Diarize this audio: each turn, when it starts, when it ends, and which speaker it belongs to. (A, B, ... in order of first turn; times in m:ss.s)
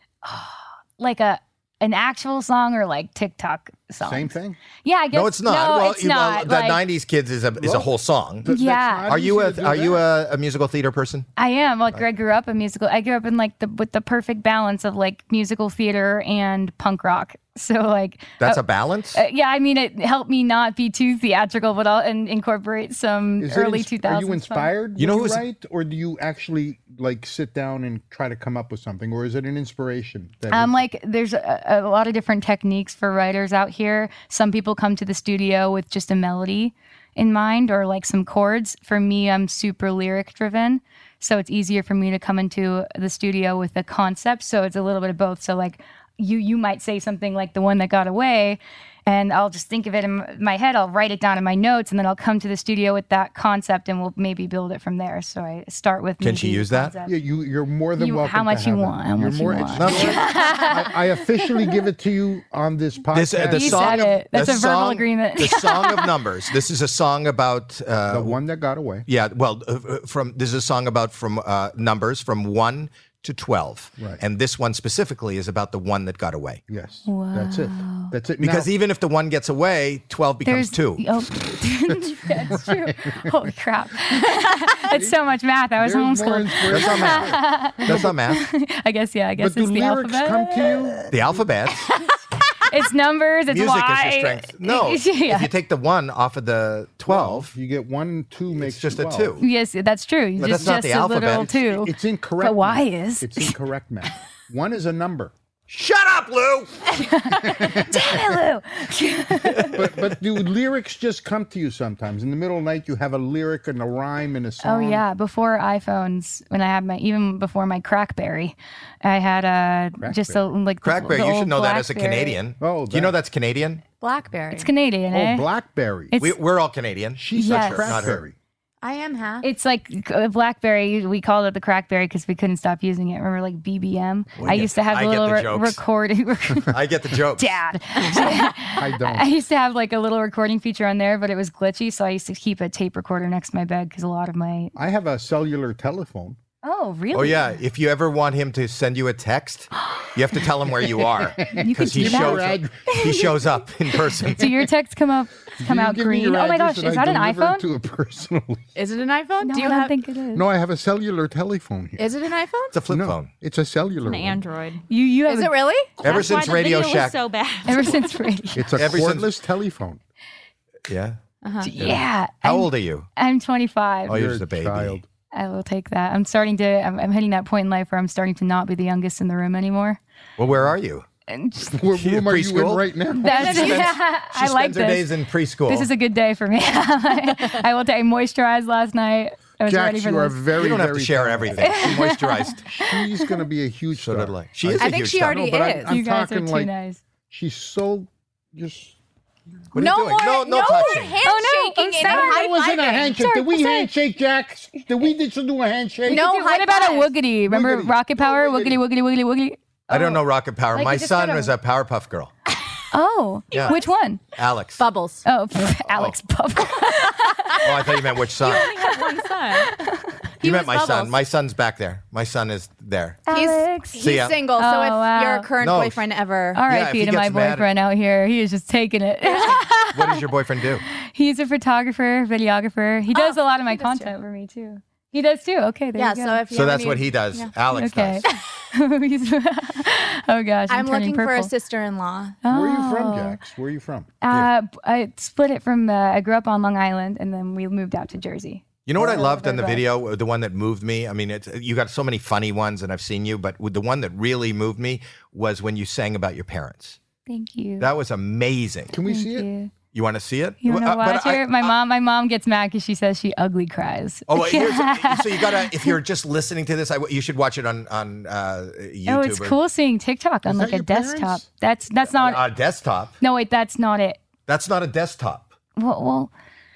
0:00.2-0:06.8 A
0:04.0-0:04.6 B
0:05.1-0:08.5 C
0:07.6-0:07.9 B
0:08.4-0:10.0 B
0:08.5-0:09.1 A
0:09.1-0:11.3 C
0:11.4-0:24.7 A
0:18.4-0:19.2 C
0:23.4-0:30.8 B
0:25.0-0:25.4 C
0:30.5-0:57.2 A
0:56.2-0:56.9 C
0:57.0-1:04.1 B
0:58.0-1:01.8 A
0:59.8-1:00.2 C
1:03.1-1:08.4 C
1:03.5-1:06.1 A
1:08.1-1:09.0 B
1:09.0-1:16.6 C
1:16.7-1:18.7 B
1:17.0-1:18.1 A
1:18.4-1:21.0 C
1:20.4-1:30.9 A
1:21.9-1:23.2 B
1:24.9-1:25.2 B
1:25.8-1:28.2 B
1:26.7-1:28.4 C
1:29.4-1:31.4 B
1:31.1-1:31.9 C
1:32.7-1:35.5 A
1:33.5-1:37.5 C
1:37.0-1:39.4 B
1:38.6-1:39.4 C
1:39.4-1:43.5 A
1:40.4-1:41.5 C
1:40.4-1:45.3 B
1:45.7-1:46.7 C
1:46.9-1:49.9 A
1:47.4-1:48.4 B
1:49.4-1:50.1 C
1:49.6-1:55.0 B
1:54.6-2:02.4 A
2:00.0-2:00.5 B
2:00.8-2:03.8 C
2:02.6-2:03.2 B
2:04.0-2:04.7 D
2:04.5-2:05.5 A
2:05.1-2:06.1 B
2:06.2-2:08.2 C
2:07.2-2:08.3 B
2:07.3-2:08.1 A
2:08.8-2:09.5 D
2:09.4-2:16.8 A
2:14.4-2:15.8 C
2:16.7-2:17.6 C
2:17.4-2:24.7 A
2:18.8-2:19.4 B
2:24.8-2:26.4 B
2:26.6-2:27.5 A
2:27.1-2:34.5 C
2:31.4-2:33.0 B
2:31.6-2:33.3 A
2:34.2-2:37.7 A
2:35.6-2:38.6 B
2:38.8-2:40.0 D
2:39.4-2:40.5 A
2:40.3-2:42.1 B
2:42.0-2:42.7 D
2:42.7-2:43.3 C
2:42.9-2:44.4 B
2:44.0-2:44.8 E
2:44.9-2:45.7 A
2:45.2-2:45.9 D
2:46.0-2:47.2 C
2:46.0-2:48.3 E
2:47.6-2:48.8 A
2:48.5-2:50.0 B
2:48.8-2:49.3 C
2:50.9-2:51.2 C
2:51.4-2:51.7 D
2:51.6-2:54.2 A
2:51.8-2:53.1 C
2:54.1-2:55.0 C
2:54.1-2:55.0 B
2:55.3-3:00.0 A
3:00.4-3:01.0 C
3:01.3-3:01.8 A
3:01.7-3:03.9 B
3:02.0-3:05.9 C
3:03.1-3:10.4 A
3:09.6-3:11.9 B
3:10.6-3:12.6 C
3:11.6-3:13.4 A
3:12.6-3:16.7 B
3:13.9-3:15.5 C
3:14.8-3:15.9 D
3:15.8-3:17.0 A
3:17.3-3:18.9 B
3:19.7-3:21.2 C
3:19.7-3:23.2 D
3:21.2-3:23.9 A
3:22.0-3:26.2 B
3:26.0-3:27.2 D
3:26.1-3:31.5 A
3:27.4-3:28.8 B
3:29.9-3:32.3 C
3:32.9-3:34.2 A
3:33.5-3:34.0 D
3:33.5-3:33.8 C
3:34.3-3:34.8 C
3:34.8-3:35.3 D
3:35.2-3:37.9 A
3:35.9-3:36.2 C
3:37.1-3:37.6 D
3:37.6-3:38.7 C
3:38.3-3:39.7 D
3:38.5-3:40.1 A
3:40.4-3:41.1 D
3:40.4-3:43.2 C
3:43.3-3:45.5 A
3:43.3-3:46.6 D
3:44.0-3:44.4 C
3:45.6-3:46.0 C
3:46.5-3:50.2 A
3:46.6-3:47.7 C
3:49.9-3:50.8 C
3:51.0-3:56.5 A
3:53.1-3:54.1 D
3:55.9-3:57.5 D
3:56.5-3:58.3 C
3:57.7-4:01.5 A
4:00.7-4:02.4 D
4:02.4-4:03.4 A
4:02.5-4:04.1 B
4:04.2-4:09.8 A
4:08.8-4:17.0 C
4:17.3-4:17.9 A
4:17.8-4:18.9 C
4:18.9-4:19.5 B
4:19.0-4:19.7 A
4:19.9-4:21.7 C
4:20.6-4:26.0 A
4:24.3-4:29.6 C
4:29.0-4:32.4 A
4:30.4-4:31.5 B
4:32.0-4:33.1 C
4:33.2-4:34.2 A
4:34.5-4:35.5 C
4:35.8-4:36.3 A